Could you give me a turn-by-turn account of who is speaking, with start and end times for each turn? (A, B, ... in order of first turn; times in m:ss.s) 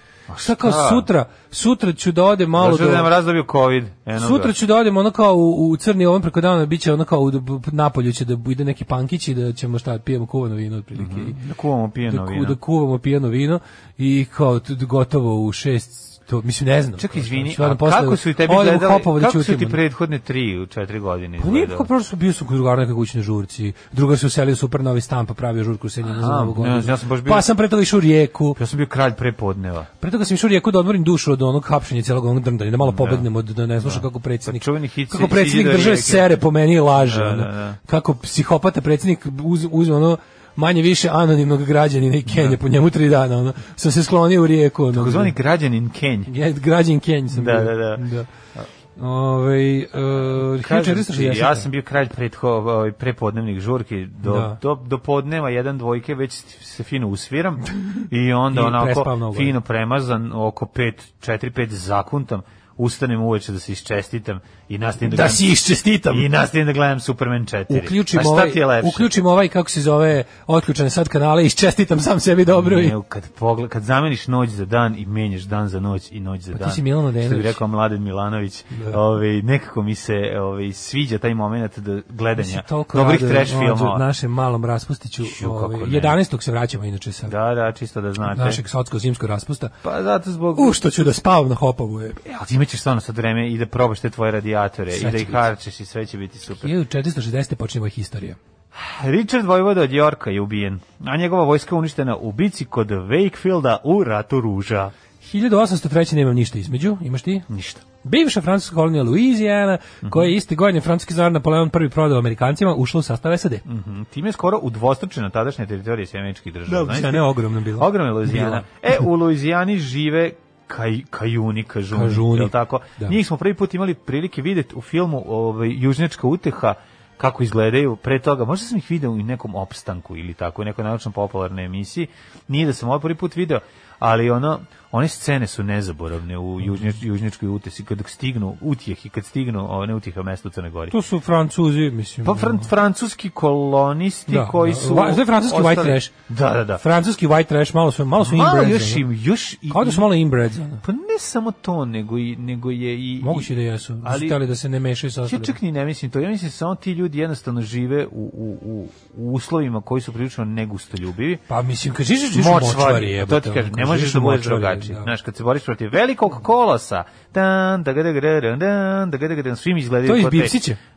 0:00.3-0:01.1 A
0:00.4-0:03.1 B
0:02.5-0:04.5 A
0:04.1-0:11.4 B
0:10.9-0:12.6 A
0:12.1-0:19.8 B
0:17.0-0:21.9 A
0:21.4-0:28.6 B
0:26.0-0:27.5 A
0:28.6-0:29.9 A
0:30.0-0:45.3 B
0:32.8-0:33.3 A
0:33.8-0:36.3 A
0:36.9-0:37.8 A
0:42.3-0:42.6 A
0:44.9-0:46.3 A
0:46.3-0:48.3 B
0:47.3-0:48.7 A
0:49.0-0:51.7 B
0:50.1-1:05.5 A
0:54.2-0:54.6 B
0:58.5-0:59.6 B
1:05.0-1:06.3 B
1:06.1-1:09.1 A
1:07.7-1:13.0 B
1:12.5-1:24.0 A
1:16.5-1:17.6 B
1:18.7-1:19.0 B
1:22.4-1:27.3 B
1:25.2-1:26.2 A
1:27.2-1:28.6 A
1:28.2-1:29.7 B
1:29.8-1:31.1 A
1:30.5-1:32.2 B
1:32.2-1:36.7 A
1:34.9-1:35.5 B
1:36.6-1:38.4 B
1:38.7-1:44.9 A
1:45.2-1:47.4 B
1:47.5-1:47.8 A
1:48.0-1:53.6 B
1:50.0-1:50.3 A
1:53.6-2:20.9 A
1:56.7-1:58.7 B
2:01.9-2:03.2 B
2:20.9-2:22.7 B
2:22.2-2:26.8 A
2:24.3-2:26.1 B
2:26.8-2:29.0 B
2:28.2-2:30.1 A
2:29.7-2:30.8 B
2:30.8-2:33.5 A
2:33.2-2:35.5 B
2:34.0-2:34.4 A
2:35.2-2:41.4 A
2:41.5-2:45.1 B
2:42.3-2:50.6 A
2:50.0-2:50.8 B